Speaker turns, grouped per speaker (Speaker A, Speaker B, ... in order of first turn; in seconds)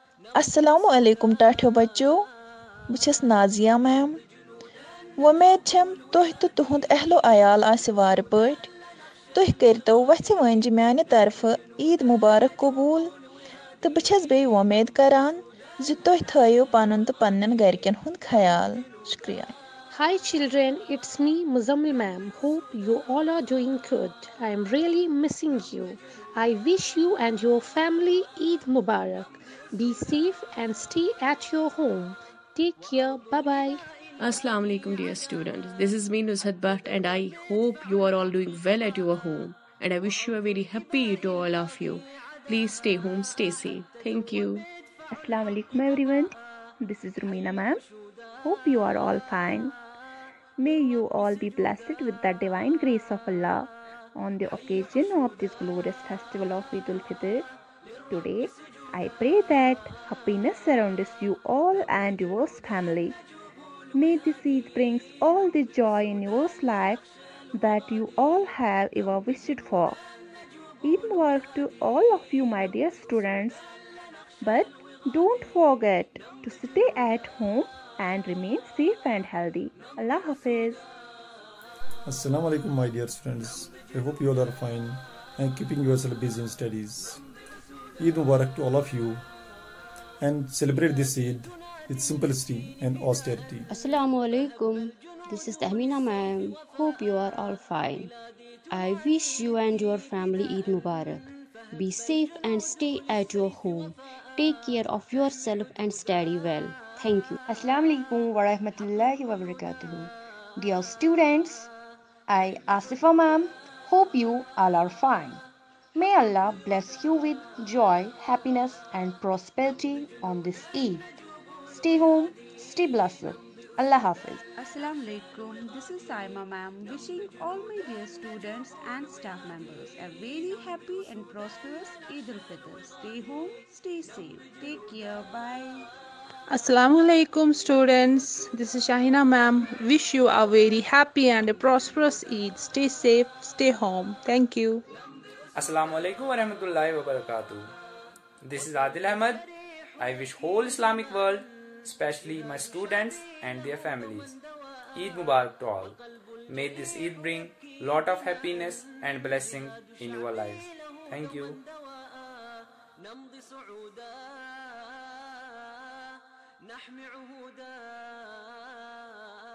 Speaker A: 0.3-2.3, 2.9-4.2, 5.2-8.7, 9.3-13.1, 13.8-19.5
Speaker B: 19.9-33.8
Speaker C: 34.2-44.6
Speaker D: 45.1-47.8, 48.4-49.8, 50.6-57.5, 58.1-63.2, 63.9-70.0, 70.8-73.6, 74.4-80.8
Speaker E: 82.0-87.2, 88.0-89.2, 90.2-93.7
Speaker F: 93.7-98.1, 98.7-107.4
Speaker G: 107.5-111.7, 112.3-115.4, 115.9-121.1, 121.7-124.4
Speaker H: 124.5-135.9
Speaker I: 136.5-144.8
Speaker J: 145.6-147.7, 148.4-149.5, 150.0-154.3, 154.9-161.6